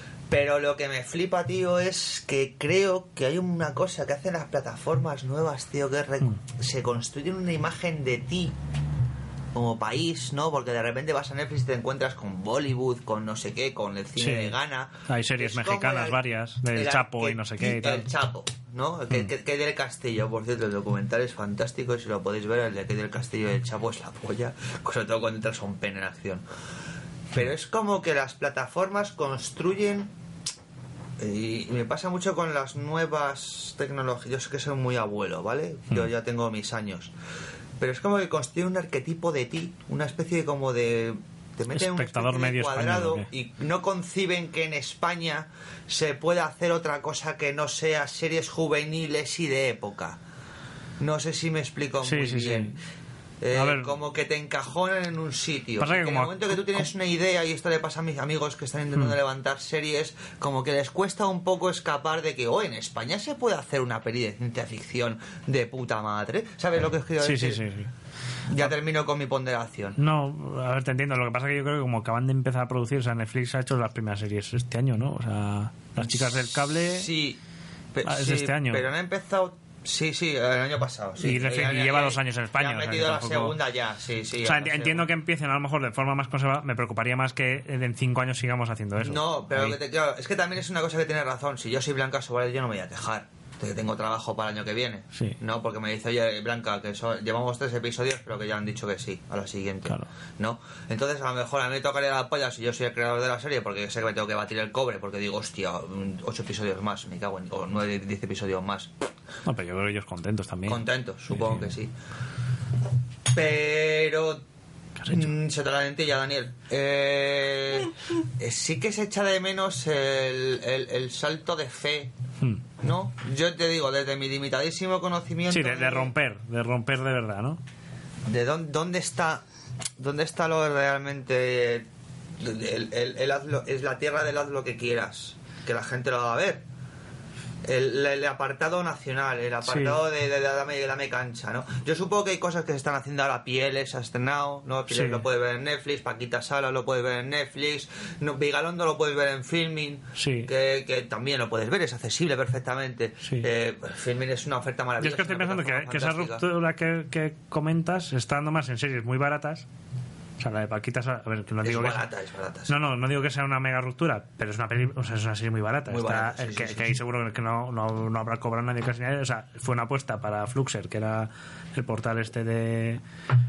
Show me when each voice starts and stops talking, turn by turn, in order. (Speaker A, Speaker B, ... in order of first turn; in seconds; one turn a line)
Speaker A: 0.3-8.6
Speaker A: 9.5-16.2
Speaker B: 14.2-14.6
Speaker B: 15.1-18.1
Speaker A: 16.7-26.4
Speaker A: 27.3-30.1
Speaker A: 31.2-37.1
Speaker A: 37.8-50.2
Speaker B: 41.7-43.3
Speaker A: 51.0-52.8
Speaker B: 52.0-52.8
Speaker A: 53.4-67.6
Speaker B: 53.5-54.0
Speaker B: 55.8-56.9
Speaker B: 67.2-67.9
Speaker A: 68.5-70.0
Speaker B: 70.0-77.1
Speaker A: 76.0-76.3
Speaker A: 76.9-77.4
Speaker A: 77.9-85.1
Speaker B: 78.0-78.9
Speaker B: 81.2-83.6
Speaker B: 84.4-89.8
Speaker A: 89.0-108.9
Speaker B: 109.5-111.8
Speaker A: 110.7-111.9
Speaker A: 113.3-114.4
Speaker B: 115.0-115.3
Speaker A: 115.1-122.1
Speaker A: 122.8-126.1
Speaker B: 125.5-127.6
Speaker A: 128.3-129.4
Speaker A: 130.0-131.9
Speaker A: 132.4-136.6
Speaker A: 137.6-156.4
Speaker B: 139.7-140.0
Speaker B: 144.9-145.2
Speaker B: 150.2-150.5
Speaker B: 153.2-153.5
Speaker B: 155.0-159.7
Speaker B: 160.4-162.0
Speaker A: 161.6-162.7
Speaker B: 162.7-173.0
Speaker A: 165.9-167.0